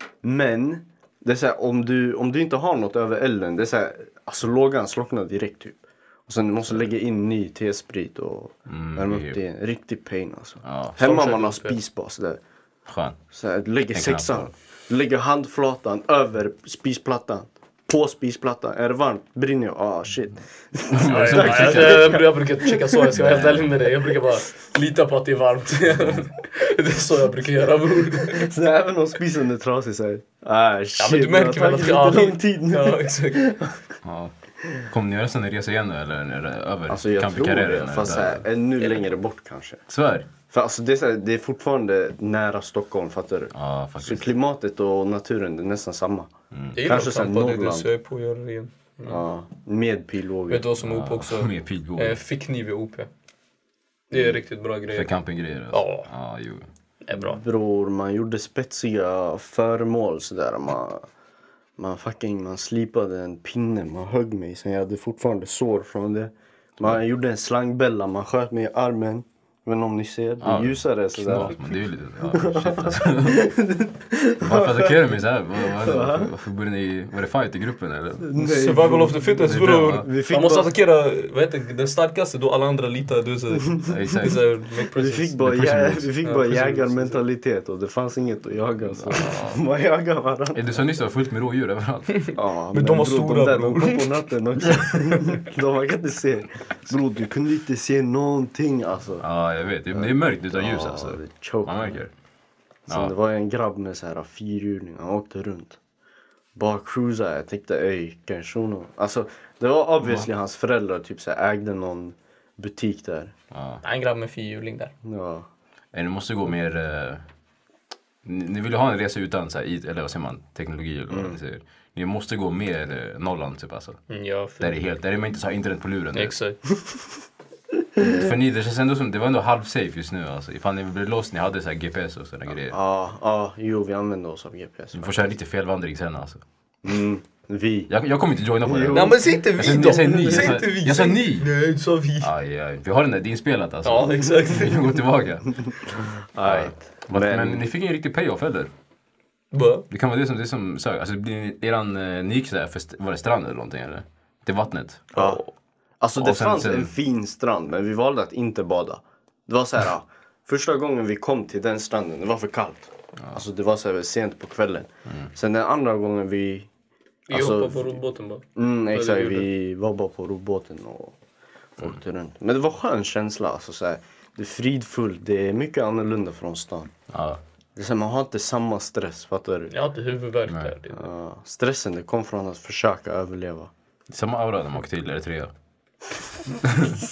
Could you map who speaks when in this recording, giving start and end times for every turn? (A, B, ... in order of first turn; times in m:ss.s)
0:00.2-0:12.4 A
0:08.7-0:09.4 B
0:10.6-0:11.0 B
0:11.0-0:11.8 C
0:12.9-0:13.2 B
0:13.3-0:23.1 A
0:13.9-0:14.5 B
0:20.9-0:22.2 B
0:21.1-0:28.5 C
0:23.1-0:23.7 B
0:28.2-0:33.8 A
0:31.0-0:33.5 C
0:34.0-0:38.5 B
0:36.9-0:39.8 A
0:39.9-0:40.3 B
0:40.5-0:47.9 A
0:43.5-0:44.3 B
0:46.5-0:46.8 B
0:46.8-0:49.2 C
0:49.0-0:50.7 A
0:50.5-0:53.1 C
0:50.8-0:52.2 B
0:54.1-0:55.1 C
0:54.9-0:56.7 B
0:55.7-0:56.1 C
0:57.0-0:57.4 C
0:57.2-1:01.1 A
1:01.8-1:11.6 A
1:10.4-1:13.4 B
1:12.3-1:15.0 A
1:14.4-1:18.3 B
1:15.6-1:16.3 A
1:18.2-1:20.7 A
1:18.4-1:25.4 C
1:19.6-1:20.0 B
1:23.8-1:24.4 B
1:24.9-1:30.8 A
1:25.4-1:26.1 B
1:26.2-1:27.2 C
1:28.8-1:29.6 B
1:30.5-1:32.1 B
1:32.1-1:34.2 C
1:32.3-1:39.2 A
1:39.2-1:42.1 B
1:39.9-1:42.0 A
1:42.9-1:45.8 A
1:42.9-1:43.1 B
1:46.5-1:53.3 A
1:50.0-1:50.3 B
1:53.5-1:53.8 B
1:53.8-1:54.9 C
1:55.0-1:55.5 A
1:55.9-1:57.2 B
1:58.2-2:04.0 B
2:01.1-2:01.4 A
2:04.1-2:04.7 C
2:04.6-2:06.3 B
2:06.1-2:06.6 C
2:08.0-2:12.8 B
2:12.5-2:15.2 A
2:14.9-2:16.4 B
2:16.8-2:17.9 A
2:17.9-2:21.5 B
2:18.6-2:19.2 A
2:18.9-2:22.3 C
2:22.2-2:25.5 B
2:23.8-2:25.0 C
2:25.8-2:27.6 A
2:26.4-2:28.7 B
2:29.5-2:29.9 C
2:29.9-2:35.4 B
2:35.1-2:35.4 A
2:36.0-2:46.7 A
2:36.2-2:36.9 B
2:47.3-2:49.5 C
2:47.3-2:48.0 A
2:48.6-2:51.2 A
2:51.8-2:56.9 A
2:57.1-2:57.4 B
2:57.8-2:59.7 A
2:59.7-3:01.0 C
3:00.5-3:00.7 B
3:00.9-3:03.7 A
3:04.1-3:05.5 B
3:06.6-3:07.0 B